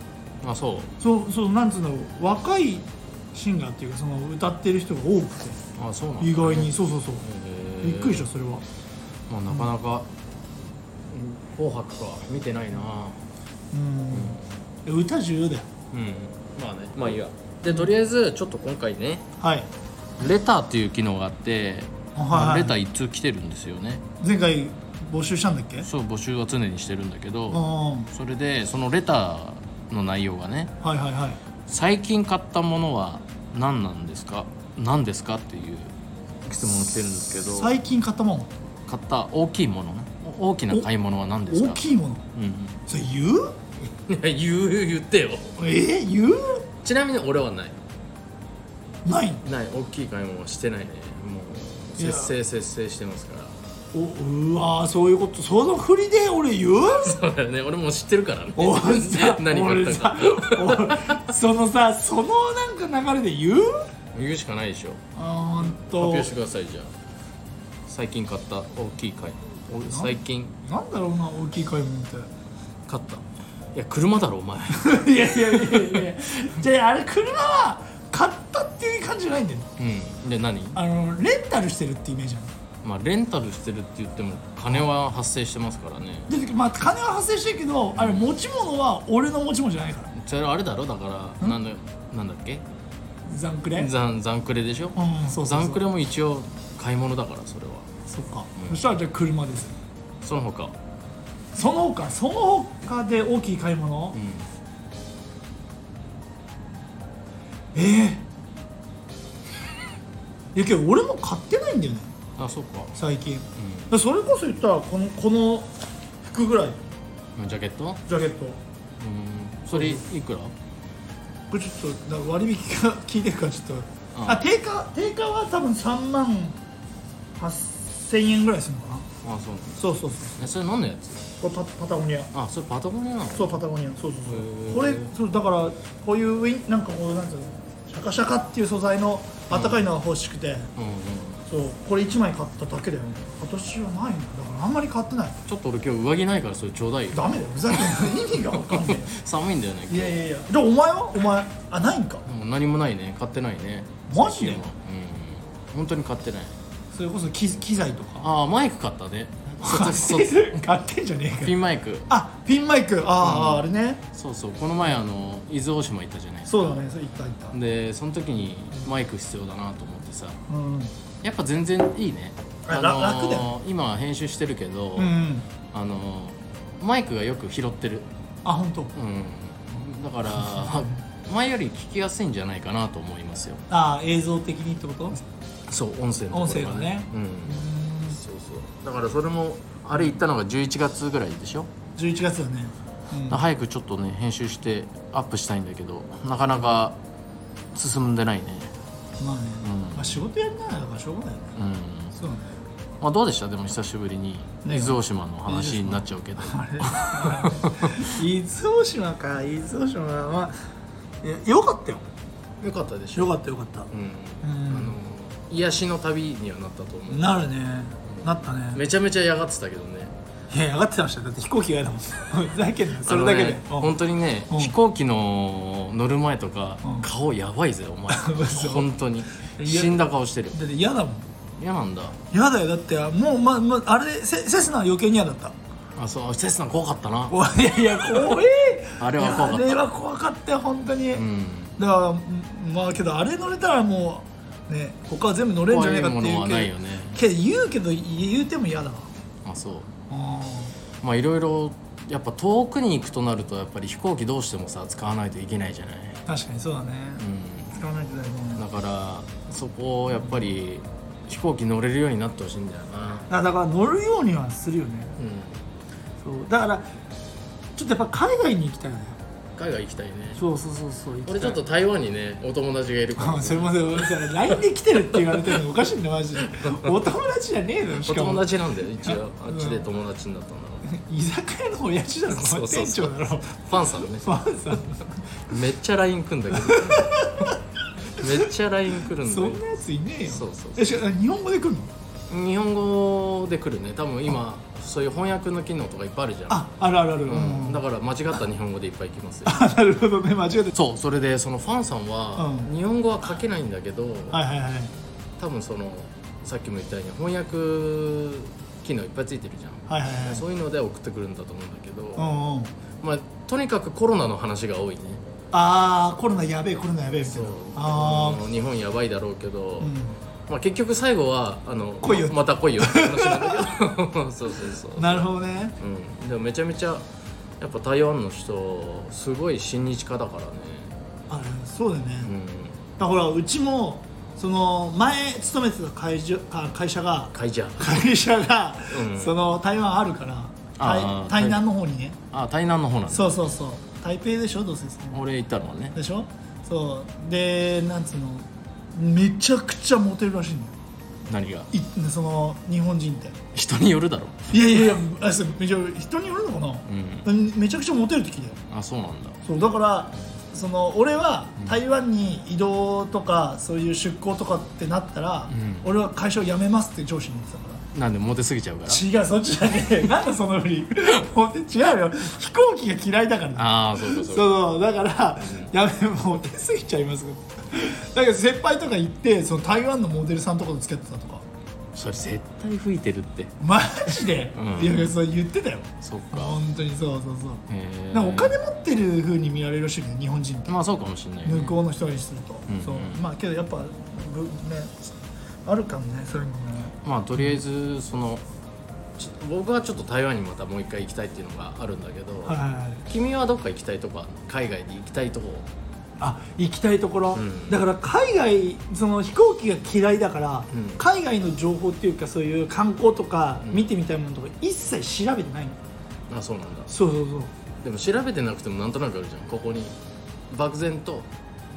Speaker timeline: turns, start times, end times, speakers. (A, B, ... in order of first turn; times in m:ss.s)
0:00.4-0:00.9 A
0:01.0-0:05.6 B
0:05.8-0:08.3 A
0:06.2-0:07.2 B
0:07.8-0:08.6 B
0:09.3-0:10.1 A
0:11.1-0:13.2 A
0:13.7-0:15.7 B
0:14.1-0:14.4 A
0:15.9-0:19.3 A
0:19.4-0:19.7 B
0:20.2-0:24.0 A
0:22.2-0:22.8 B
0:24.2-0:25.9 B
0:25.8-0:30.7 A
0:27.5-0:28.1 B
0:30.8-0:31.4 B
0:31.7-0:35.9 A
0:36.5-0:37.8 A
0:37.5-0:38.5 B
0:38.9-0:41.8 A
0:41.5-0:42.2 B
0:42.4-0:42.8 A
0:42.9-0:43.6 B
0:44.0-0:45.6 A
0:45.6-0:46.7 B
0:46.8-0:47.8 A
0:49.0-0:49.4 B
0:49.4-0:53.6 A
0:52.0-0:52.3 B
0:53.9-0:57.2 B
0:56.9-1:01.3 A
0:58.6-1:03.7 B
1:04.1-1:05.0 A
1:05.2-1:06.3 B
1:05.6-1:06.9 A
1:07.9-1:10.6 A
1:09.9-1:12.3 B
1:12.9-1:15.9 A
1:14.7-1:19.7 B
1:19.8-1:20.8 A
1:20.8-1:22.5 B
1:22.8-1:26.3 A
1:26.3-1:30.1 B
1:28.0-1:28.3 A
1:30.1-1:32.6 A
1:33.3-1:33.9 B
1:33.7-1:37.9 A
1:35.0-1:35.8 B
1:38.1-1:39.8 B
1:38.6-1:38.9 A
1:40.2-1:40.8 A
1:41.5-1:44.2 B
1:44.1-1:44.5 A
1:47.7-1:48.3 B
1:50.5-1:52.1 B
1:52.4-1:52.9 A
1:53.0-1:55.7 B
1:53.6-1:53.9 A
1:56.2-1:56.8 B
1:57.4-1:58.0 A
1:58.1-1:58.6 B
1:59.0-2:00.5 A
1:59.7-2:00.0 B
2:01.5-2:06.6 B
2:04.1-2:04.4 A
2:07.4-2:09.1 B
2:09.2-2:09.8 A
2:09.8-2:10.4 B
2:10.4-2:11.2 A
2:11.4-2:12.3 B
2:12.3-2:13.6 A
2:13.3-2:20.7 B
2:14.3-2:15.1 A
2:19.5-2:19.8 A
2:20.8-2:21.4 A
2:21.5-2:25.4 B
2:25.5-2:30.2 A
2:27.1-2:29.1 B
2:29.9-2:32.2 B
2:32.2-2:36.6 A
2:34.1-2:34.7 B
2:36.9-2:38.3 B
2:38.2-2:40.6 A
2:39.6-2:41.6 B
2:41.4-2:42.1 A
2:42.1-2:44.0 B
2:43.2-2:46.9 A
2:46.5-2:47.6 B
2:47.5-2:50.4 A
2:50.5-2:50.9 B
2:51.2-2:55.2 A
2:52.7-2:53.5 B
2:55.0-2:55.5 B
2:55.7-2:58.1 A
2:58.4-2:59.0 B
2:59.0-3:03.6 A
3:00.4-3:00.9 B
3:03.7-3:05.2 B
3:05.7-3:11.7 A
3:06.3-3:08.2 B
3:09.9-3:10.2 B
3:12.0-3:13.4 B
3:13.3-3:17.0 A
3:17.7-3:18.7 A
3:19.2-3:21.6 B
3:19.6-3:20.2 A
3:21.6-3:22.2 A
3:22.1-3:22.5 B
3:23.0-3:27.9 A
3:24.6-3:30.6 B
3:31.2-3:32.0 B
3:32.6-3:33.4 A
3:33.2-3:33.9 B
3:33.9-3:37.5 A
3:34.4-3:35.0 B
3:37.1-3:38.8 B
3:38.1-3:40.2 A
3:40.5-3:44.0 B
3:43.0-3:50.6 A
3:44.5-3:44.7 B
3:48.1-3:48.9 B
3:49.4-3:51.2 B
3:51.6-3:52.2 A
3:52.3-3:55.6 B
3:56.0-3:57.4 A
3:57.3-4:01.2 B
3:59.0-3:59.8 A
4:01.1-4:01.8 A
4:01.8-4:09.1 B
4:05.7-4:07.2 A
4:09.4-4:09.9 A
4:10.1-4:10.8 B
4:11.0-4:16.2 A
4:16.3-4:18.6 B
4:17.2-4:17.8 A
4:18.6-4:23.3 A
4:23.3-4:25.2 B
4:25.2-4:25.6 A
4:26.2-4:26.8 B
4:27.8-4:29.2 B
4:29.6-4:30.4 A
4:30.4-4:31.6 B
4:31.3-4:34.3 A
4:33.2-4:38.5 B
4:38.0-4:40.8 A
4:39.0-4:39.8 B
4:40.8-4:43.6 B
4:42.3-4:44.4 A
4:44.2-4:45.2 B
4:45.5-4:47.2 A
4:46.6-4:47.5 B
4:48.1-4:49.6 A
4:49.2-4:51.9 B
4:50.3-4:51.0 A
4:52.3-4:56.6 A
4:56.5-4:57.8 B
4:57.2-4:59.7 A
4:59.5-5:00.7 B
5:00.7-5:04.4 A
5:02.4-5:02.7 B
5:04.3-5:04.9 B
5:05.4-5:12.3 A
5:09.9-5:10.4 B
5:12.2-5:12.7 B
5:13.0-5:15.2 A
5:15.5-5:18.4 B
5:17.2-5:20.0 A
5:19.8-5:20.2 B
5:20.5-5:27.1 A
5:22.0-5:23.7 B
5:25.0-5:25.8 B
5:27.6-5:30.9 A
5:31.3-5:32.3 B
5:32.2-5:32.8 A
5:33.0-5:42.2 B
5:37.3-5:38.1 A
5:38.9-5:39.4 A
5:40.8-5:41.6 A
5:42.3-5:43.4 A
5:43.1-5:45.2 B
5:45.1-5:46.0 A
5:45.9-5:50.7 B
5:51.2-5:51.7 A
5:51.7-5:53.4 B
5:53.5-5:54.5 A
5:54.5-5:58.6 B
5:56.9-5:57.3 A
5:58.7-5:59.4 A
5:59.4-6:07.8 B
6:05.5-6:05.9 A
6:07.9-6:09.0 A
6:08.9-6:21.5 B
6:13.6-6:14.8 A
6:15.4-6:15.7 A
6:21.9-6:23.5 A
6:23.6-6:30.8 B
6:24.5-6:25.2 A
6:26.0-6:26.6 A
6:27.7-6:28.6 A
6:30.7-6:31.8 A
6:31.4-6:35.1 B
6:32.7-6:33.2 A
6:35.6-6:37.6 B
6:37.0-6:38.4 A
6:39.2-6:45.7 A
6:42.5-6:43.0 B
6:46.2-6:55.8 B
6:47.3-6:47.9 A
6:50.7-6:51.0 A
6:53.6-6:53.9 A
6:56.3-6:56.9 A
6:56.9-6:57.5 B
6:57.8-7:00.0 A
7:00.5-7:01.3 A